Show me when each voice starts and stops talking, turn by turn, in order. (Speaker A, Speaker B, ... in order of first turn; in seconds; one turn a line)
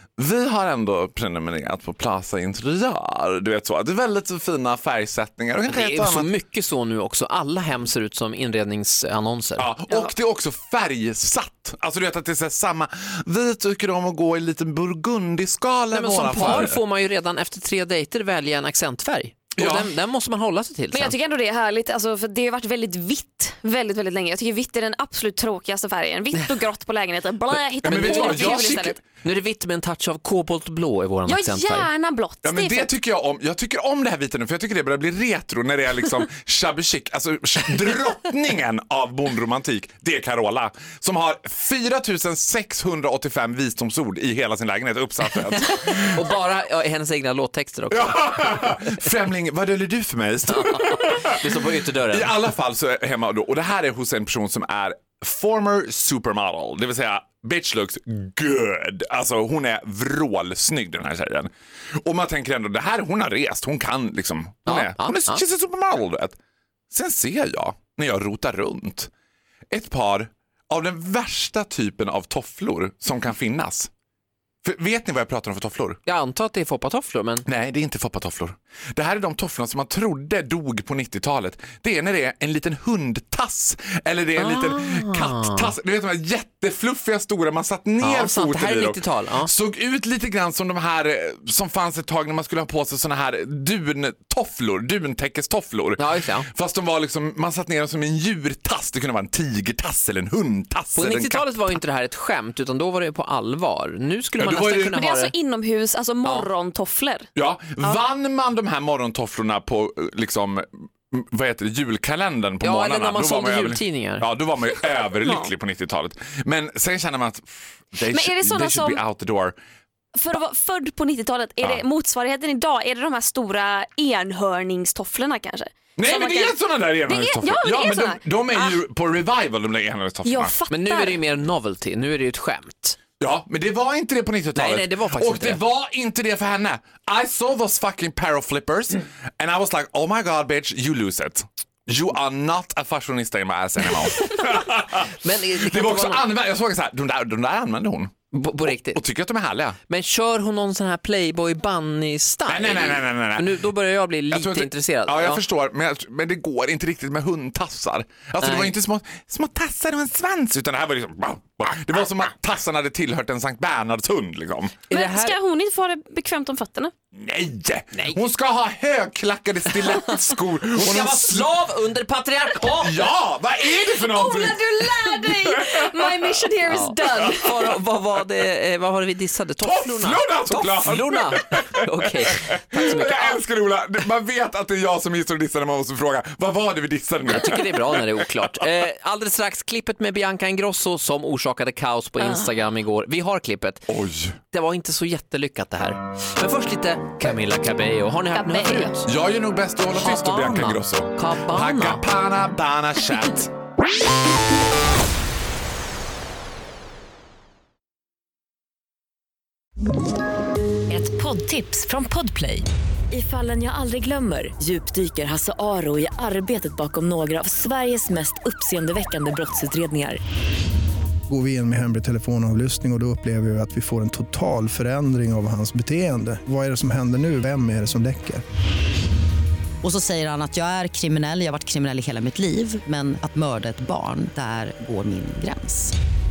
Speaker A: 0.2-6.3
Speaker B: 5.7-9.7
Speaker A: 9.6-16.8
Speaker B: 15.9-21.2
Speaker A: 19.6-19.9
Speaker C: 20.9-29.0
Speaker A: 27.8-29.0
Speaker B: 27.8-31.9
Speaker C: 31.2-32.9
Speaker A: 32.4-46.2
Speaker B: 45.6-49.0
Speaker A: 47.9-51.4
Speaker B: 50.5-52.4
Speaker A: 52.1-66.3
Speaker B: 64.7-65.4
Speaker A: 66.9-69.1
Speaker A: 69.7-73.9
Speaker A: 74.6-76.0
Speaker B: 76.0-77.5
Speaker A: 77.5-101.8
Speaker B: 84.4-85.7
Speaker B: 88.0-89.5
Speaker B: 96.0-96.5
Speaker B: 100.9-105.3
Speaker A: 104.4-105.0
Speaker C: 104.9-107.3
Speaker B: 106.2-106.5
Speaker A: 107.3-119.5
Speaker B: 112.6-114.3
Speaker C: 115.2-115.5
Speaker C: 118.1-119.0
Speaker C: 120.1-128.8
Speaker A: 126.0-130.5
Speaker C: 130.2-131.2
Speaker B: 130.7-133.0
Speaker A: 133.2-149.8
Speaker B: 134.5-135.6
Speaker B: 144.4-146.3
Speaker B: 148.3-149.0
Speaker B: 149.9-155.4
Speaker A: 152.5-153.6
Speaker A: 154.3-164.8
Speaker B: 158.4-158.7
Speaker B: 164.9-165.4
Speaker C: 164.9-166.9
Speaker A: 167.1-171.5
Speaker B: 169.9-173.1
Speaker A: 172.6-176.3
Speaker C: 173.7-177.5
Speaker B: 176.7-183.4
Speaker A: 179.6-188.7
Speaker B: 187.2-193.9
Speaker C: 192.2-192.5
Speaker A: 193.9-194.4
Speaker B: 194.5-199.0
Speaker C: 198.3-198.9
Speaker A: 199.1-203.5
Speaker B: 199.9-202.1
Speaker D: 210.9-220.2
Speaker E: 221.3-228.4
Speaker F: 229.8-235.9